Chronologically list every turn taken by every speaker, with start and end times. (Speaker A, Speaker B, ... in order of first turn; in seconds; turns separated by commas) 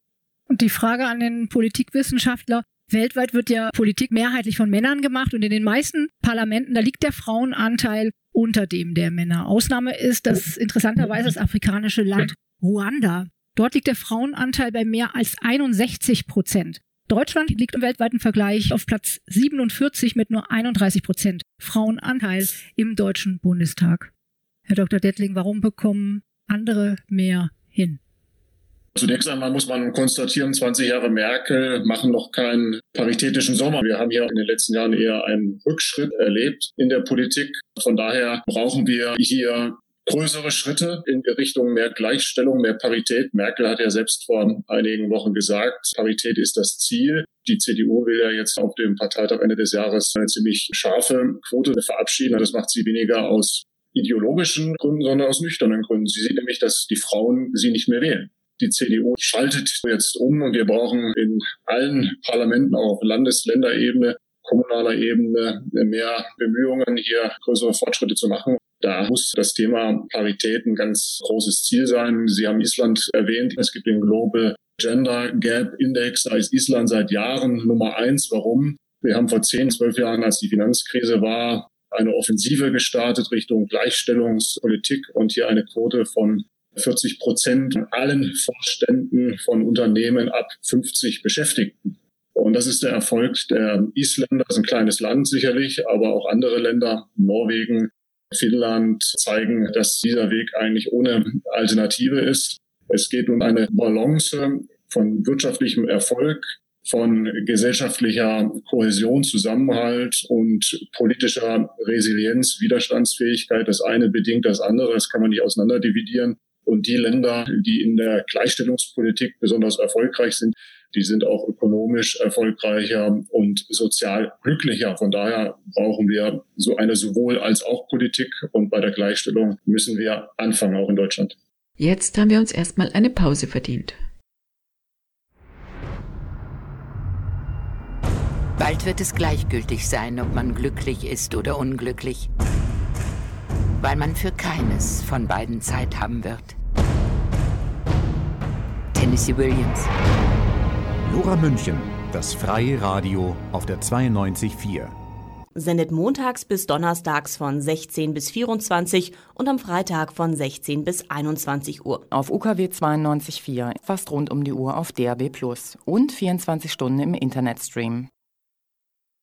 Speaker A: 0.5-24.1, Speaker A: 24.7-28.0, Speaker B: 28.9-131.3, Speaker C: 131.8-134.0, Speaker D: 138.6-142.3, Speaker D: 143.8-146.6, Speaker D: 148.9-149.9, Speaker E: 151.0-154.9, Speaker F: 155.5-162.1, Speaker G: 162.1-168.1